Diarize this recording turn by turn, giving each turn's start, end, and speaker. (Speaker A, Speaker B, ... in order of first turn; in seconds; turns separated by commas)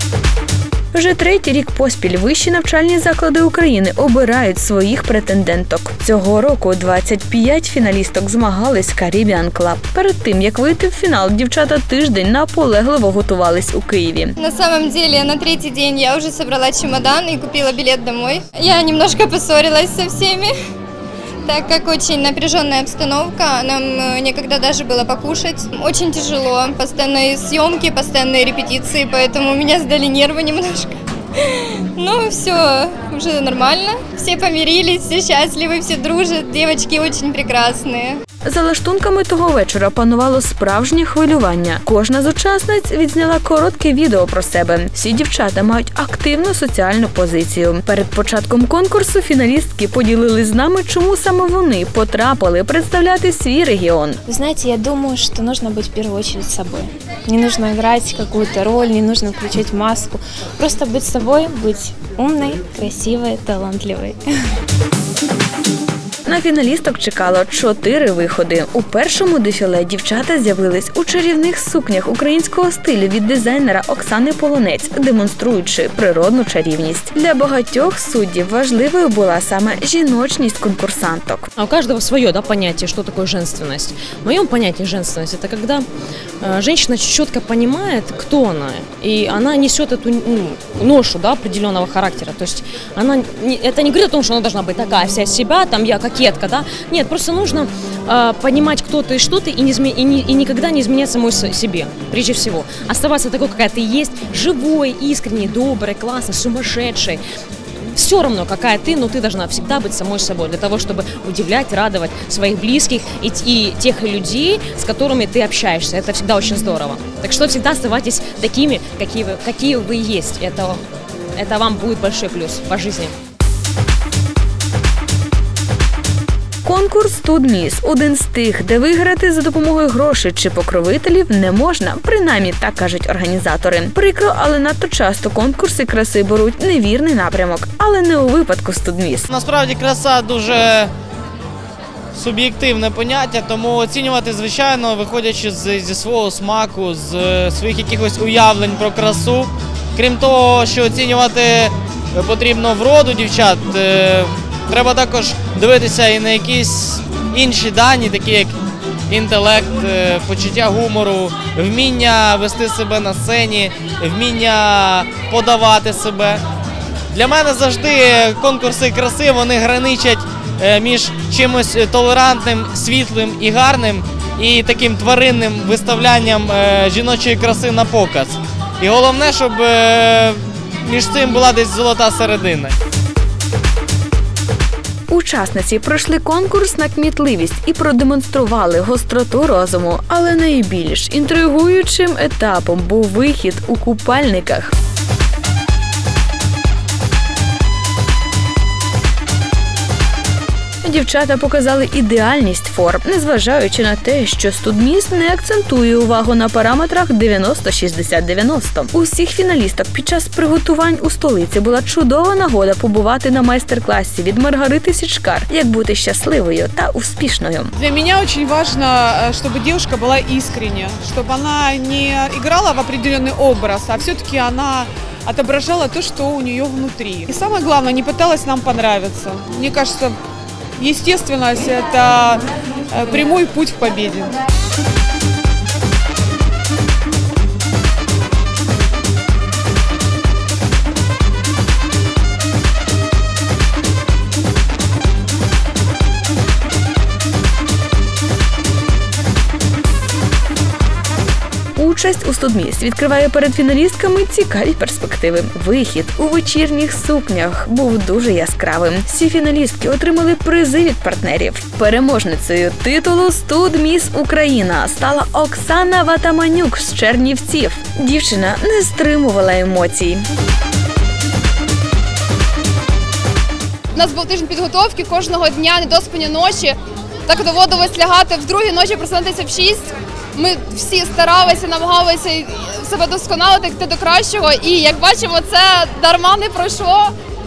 Speaker A: 0.9-14.4, Speaker B: 14.4-20.5, Speaker B: 21.4-38.2, Speaker A: 38.5-54.2, Speaker C: 54.3-64.3, Speaker A: 66.2-81.5, Speaker D: 81.6-85.9, Speaker D: 86.4-107.2, Speaker D: 108.0-120.8, Speaker D: 121.4-123.1, Speaker A: 126.6-139.3, Speaker E: 139.3-140.9, Speaker E: 142.1-158.6, Speaker E: 159.1-166.4, Speaker E: 167.1-182.7, Speaker A: 185.1-194.7, Speaker A: 200.8-217.7, Speaker F: 217.8-230.2, Speaker F: 230.8-234.3, Speaker A: 251.8-270.2, Speaker G: 273.9-276.8, Speaker G: 277.3-287.1